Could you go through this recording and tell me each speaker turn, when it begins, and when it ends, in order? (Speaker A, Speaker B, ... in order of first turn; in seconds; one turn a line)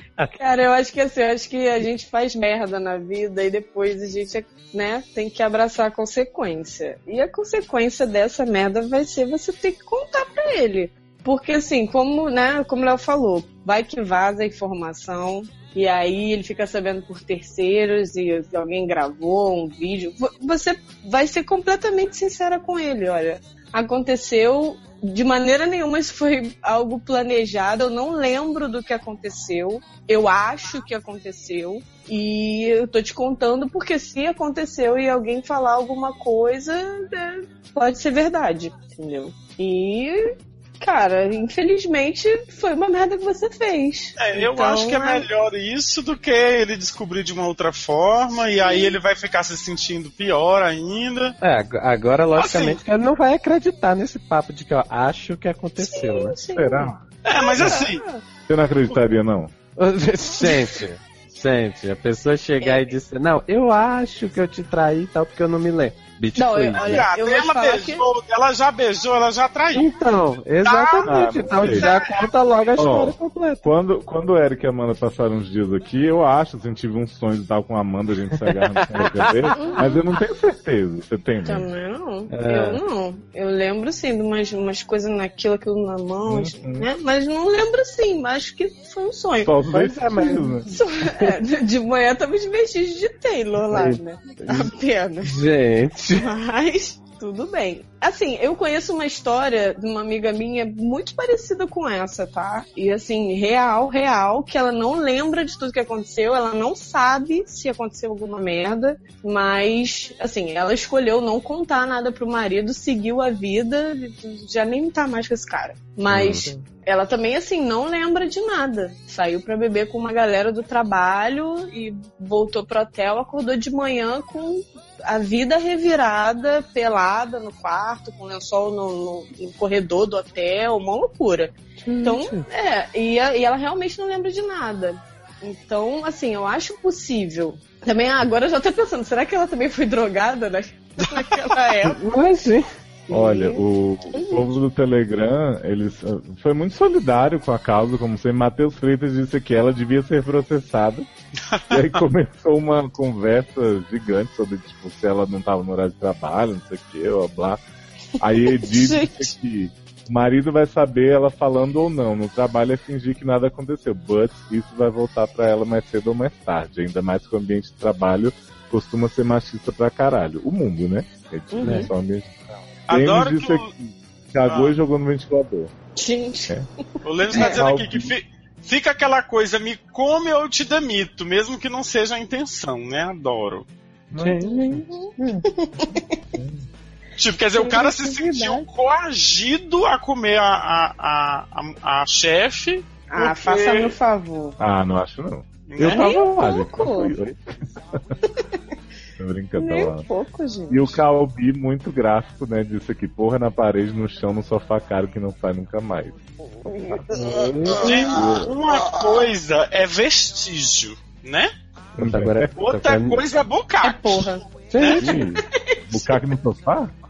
Speaker A: 0.4-45.3
Speaker B: 44.2-51.4
Speaker A: 48.6-49.0
Speaker C: 51.4-56.4
Speaker B: 52.3-52.8
Speaker A: 55.8-58.2
Speaker D: 56.5-57.0
Speaker B: 57.2-58.0
Speaker D: 58.5-59.5
Speaker C: 59.8-67.0
Speaker A: 62.6-62.9
Speaker A: 66.3-68.1
Speaker B: 66.8-69.9
Speaker C: 69.8-73.7
Speaker B: 70.6-72.5
Speaker D: 71.0-71.9
Speaker D: 72.8-81.7
Speaker C: 78.5-80.0
Speaker A: 79.6-80.0
Speaker A: 81.5-95.4
Speaker C: 82.3-82.8
Speaker D: 86.3-86.9
Speaker D: 89.4-90.7
Speaker C: 89.7-91.3
Speaker C: 93.7-94.7
Speaker C: 95.2-96.3
Speaker A: 96.2-142.0
Speaker C: 116.1-116.5
Speaker C: 131.8-132.5
Speaker C: 141.8-142.7
Speaker A: 143.1-144.6
Speaker D: 143.1-151.1
Speaker B: 151.5-152.0
Speaker D: 151.7-157.6
Speaker D: 158.2-175.7
Speaker A: 158.4-159.3
Speaker A: 171.5-171.9
Speaker C: 171.6-171.9
Speaker B: 172.9-173.7
Speaker B: 174.5-174.8
Speaker A: 176.0-176.6
Speaker B: 177.0-183.7
Speaker D: 177.3-178.1
Speaker D: 184.1-184.9
Speaker C: 184.2-185.3
Speaker A: 184.5-186.2
Speaker D: 186.3-186.6
Speaker B: 187.2-194.0
Speaker A: 187.6-188.7
Speaker A: 193.1-194.6
Speaker D: 194.6-198.0
Speaker B: 195.7-196.1
Speaker A: 195.9-197.1
Speaker D: 199.2-200.1
Speaker A: 199.6-201.0
Speaker D: 200.7-207.1
Speaker A: 206.4-209.3
Speaker C: 207.1-208.3
Speaker B: 207.8-211.5
Speaker D: 208.1-208.6
Speaker D: 212.0-212.5
Speaker C: 212.0-213.2
Speaker B: 212.6-214.2
Speaker A: 213.8-214.4
Speaker C: 214.7-215.2
Speaker B: 214.8-215.2
Speaker D: 215.0-216.9